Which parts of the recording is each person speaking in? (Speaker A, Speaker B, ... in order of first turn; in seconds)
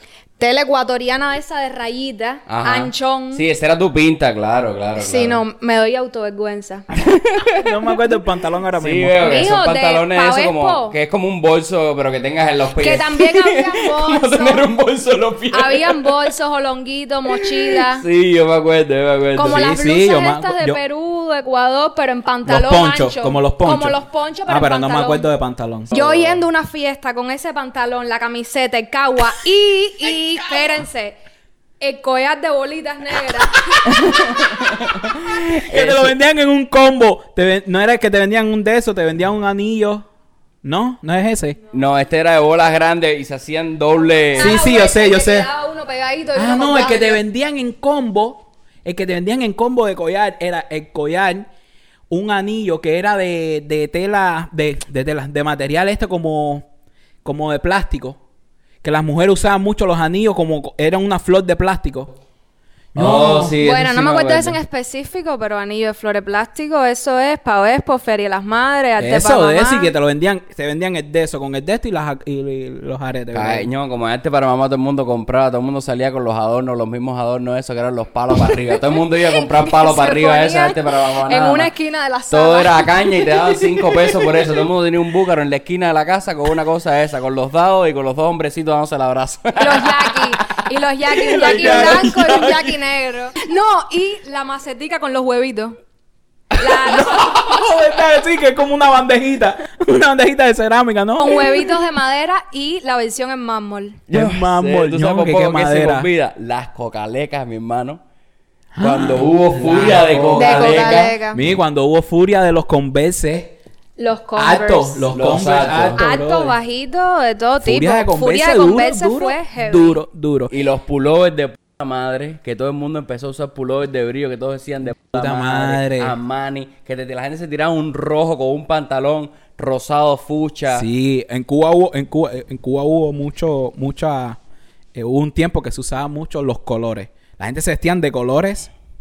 Speaker A: 0.4-3.4, 5.0-6.9, 9.2-10.9, 12.8-14.7, 15.5-18.1, 19.4-25.2, 25.9-31.2, 31.8-33.9, 44.4-47.2, 63.6-69.9, 79.5-83.4, 89.5-95.8, 96.6-97.5, 101.2-104.0, 110.4-111.4, 114.0-115.1, 115.8-120.0
Speaker B: 2.5-5.4, 6.9-7.6, 8.8-16.3, 17.4-19.7, 25.9-26.4, 34.0-36.1, 41.7-44.6, 63.0-64.6, 73.3-81.7, 82.3-92.8, 104.1-108.0, 108.8-111.2, 115.1-116.0, 120.5-130.9
Speaker C: 7.6-9.6, 19.4-20.8, 22.5-25.9, 33.9-34.4, 35.2-40.0, 40.6-41.6, 44.4-45.5, 46.4-51.5, 52.1-56.6, 57.2-58.2, 58.8-62.1, 62.9-63.6, 69.0-73.7, 91.6-92.1, 97.0-101.6, 104.1-106.1, 108.8-113.6, 114.4-116.5, 117.6-120.5, 125.1-126.2, 130.7-134.4, 134.9-138.7